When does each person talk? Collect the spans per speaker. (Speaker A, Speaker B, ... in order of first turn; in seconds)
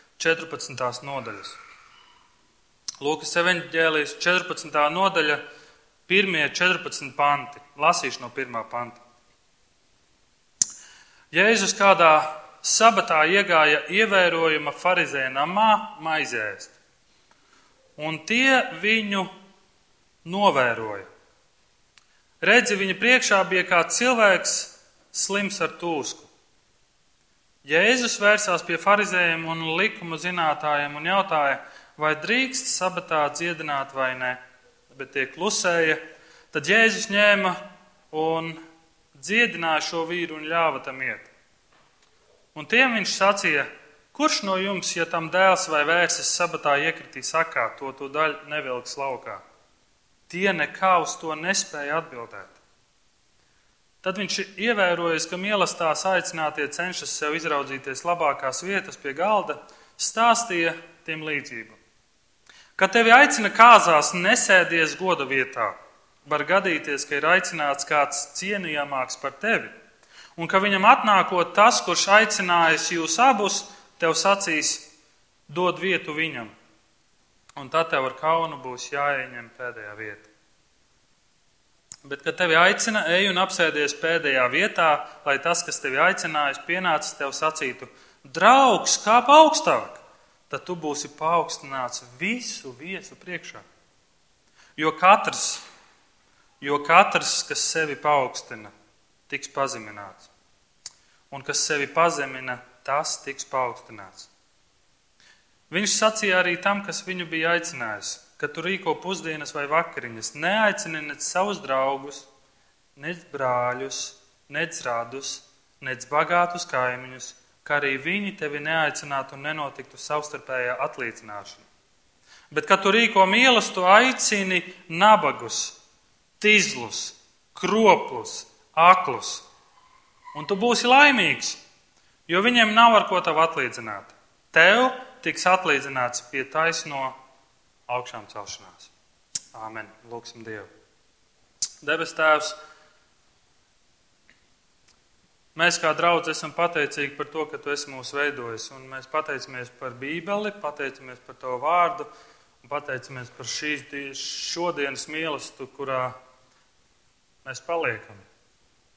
Speaker A: 0.2-1.6, 3.0-5.4, 6.1-9.0, 11.3-16.8, 18.0-19.3, 20.2-21.1, 22.4-26.3, 27.6-36.0, 36.5-37.6, 38.1-38.6, 39.1-41.3, 42.5-49.4, 50.3-52.6, 54.0-61.8, 62.8-69.7, 70.4-74.9, 75.5-76.5, 77.6-80.3, 82.0-93.7, 94.8-95.6, 96.6-98.7, 99.3-100.3, 101.3-104.3, 105.7-112.3, 113.0-121.7, 122.5-125.8, 126.4-129.4, 130.3-131.6, 132.3-137.2, 137.9-138.9, 139.5-140.7, 141.8-142.6, 145.6-152.1, 152.6-156.2, 157.4-158.2